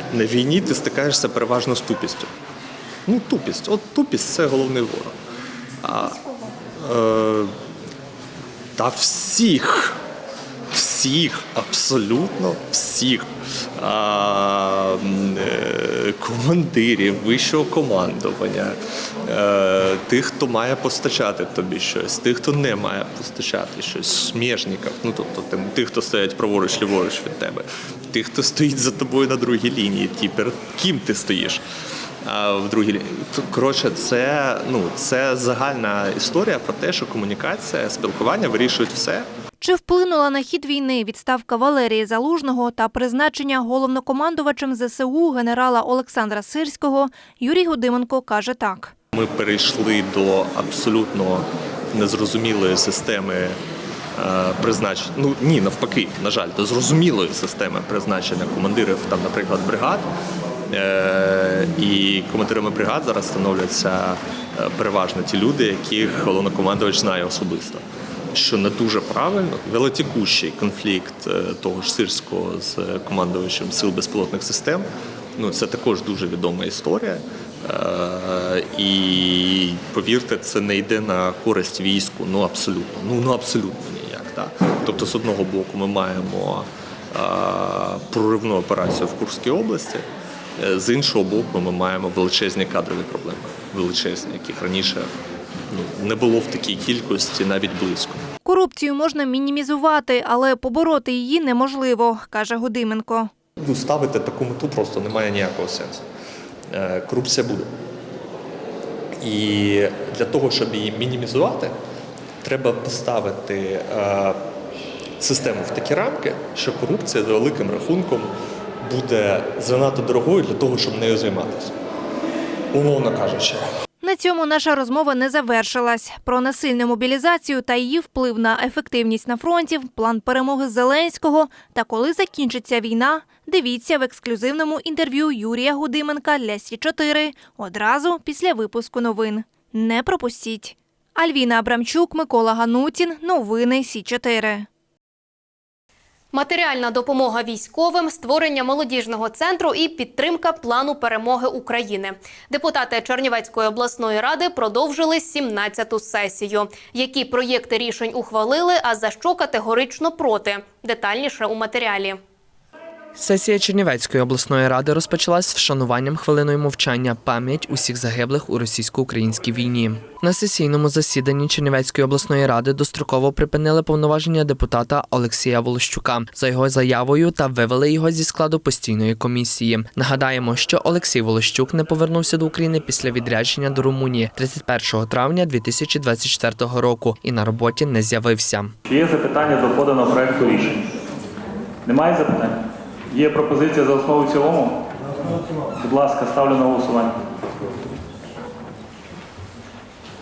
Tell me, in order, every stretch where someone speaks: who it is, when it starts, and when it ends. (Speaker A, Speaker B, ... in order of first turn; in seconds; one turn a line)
Speaker A: 0.1-2.3
Speaker A: 3.1-5.1
Speaker A: 5.8-6.2
Speaker A: 6.8-7.5
Speaker A: 8.8-10.0
Speaker A: 10.7-13.3
Speaker A: 13.8-31.6
Speaker A: 32.3-39.3
Speaker B: 39.6-48.9
Speaker A: 49.1-53.6
Speaker A: 54.2-60.1
Speaker A: 60.7-67.8
Speaker A: 68.3-74.9
Speaker A: 75.4-90.0
Speaker A: 90.6-95.1
Speaker A: 95.7-98.2
Speaker B: 98.4-103.3
Speaker A: 103.6-106.0
Speaker A: 106.7-107.7
Speaker A: 109.2-111.7
Speaker A: 112.4-114.4
Speaker A: 115.2-118.3
Speaker A: 118.8-121.7
Speaker A: 122.7-123.6
Speaker B: 124.0-144.7
Speaker C: 146.3-162.2
Speaker D: 163.2-188.7
Speaker E: 188.9-190.8
Speaker E: 191.9-194.8
Speaker E: 195.8-197.2